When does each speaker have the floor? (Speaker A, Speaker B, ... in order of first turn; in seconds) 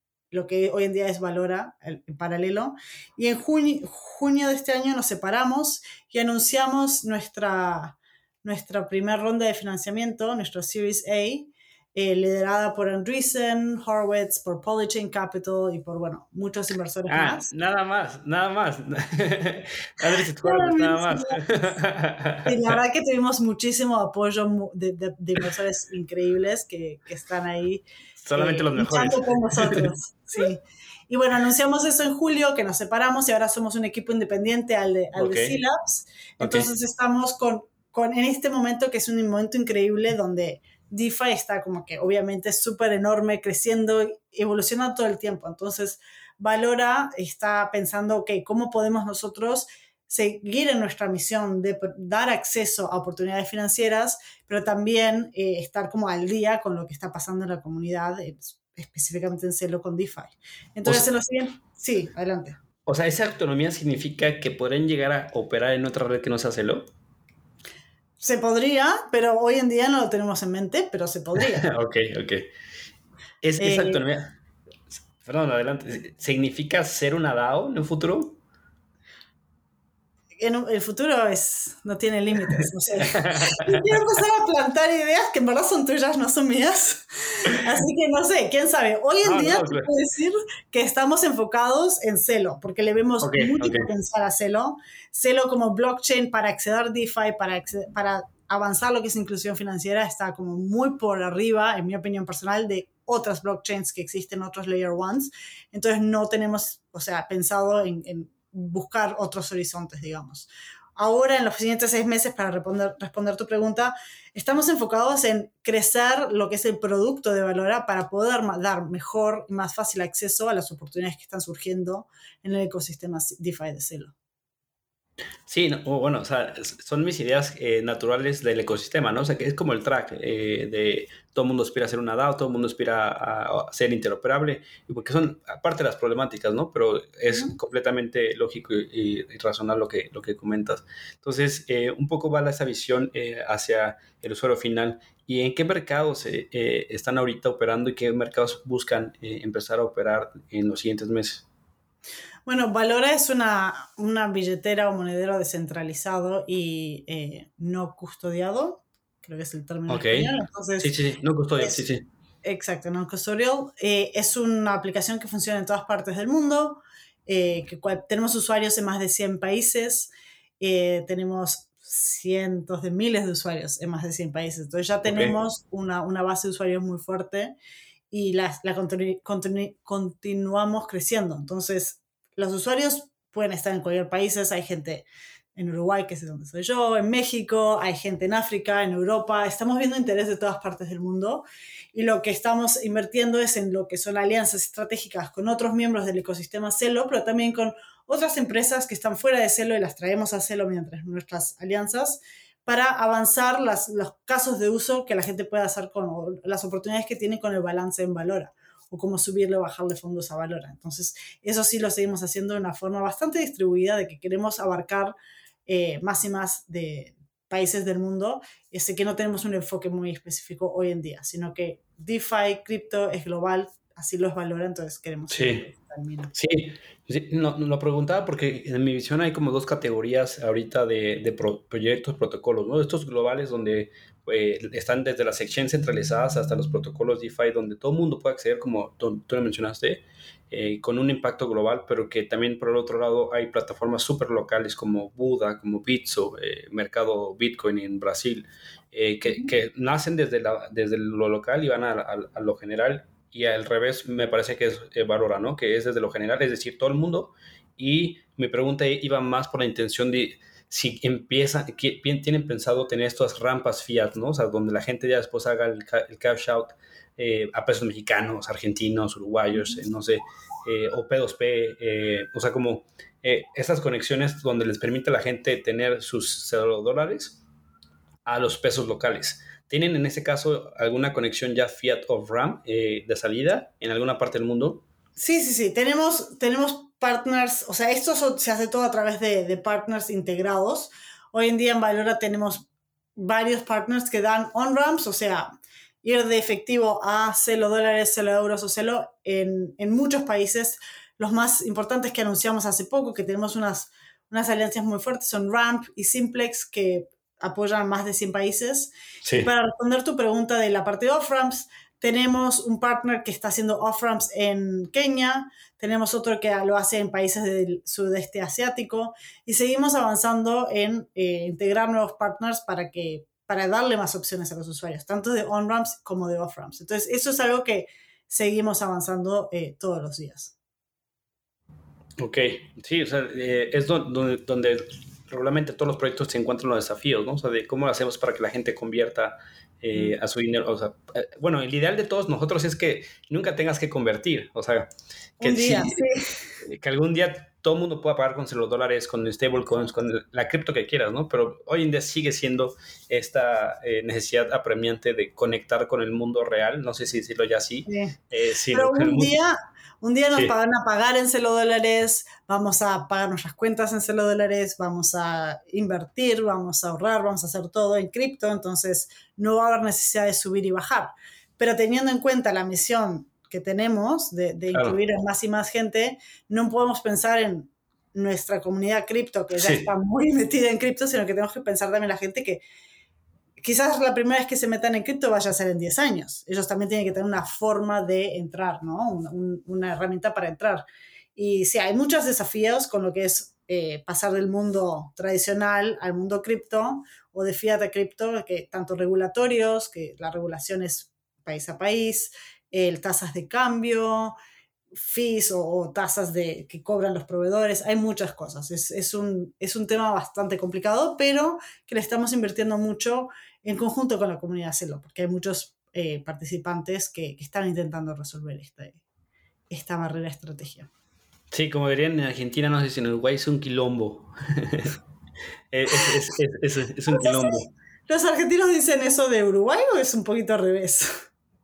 Speaker A: 0.3-17.5, 20.3-21.4, 22.4-62.6, 68.2-71.7, 73.6-74.0, 80.4-124.1, 152.5-160.9, 162.4-177.5, 178.1-215.1, 215.7-226.3, 285.2-295.5, 296.0-330.6, 345.4-346.3, 357.9-358.1, 358.7-382.6, 383.6-390.9, 391.4-404.4, 404.9-419.0, 419.7-420.9, 427.1-427.6, 428.1-431.1
Speaker B: 17.1-22.8, 28.2-29.9, 35.1-35.6, 36.4-36.7, 62.9-66.8, 71.5-72.5, 73.4-74.3, 75.2-78.4, 83.0-84.0, 89.2-89.9, 93.2-93.9, 125.5-151.5, 159.9-162.1, 175.0-175.4, 225.3-225.7, 226.3-277.4, 278.3-284.8, 309.2-309.5, 332.2-344.9, 345.4-346.0, 346.6-359.3, 374.7-375.0, 379.6-379.9, 421.5-424.9, 425.7-427.7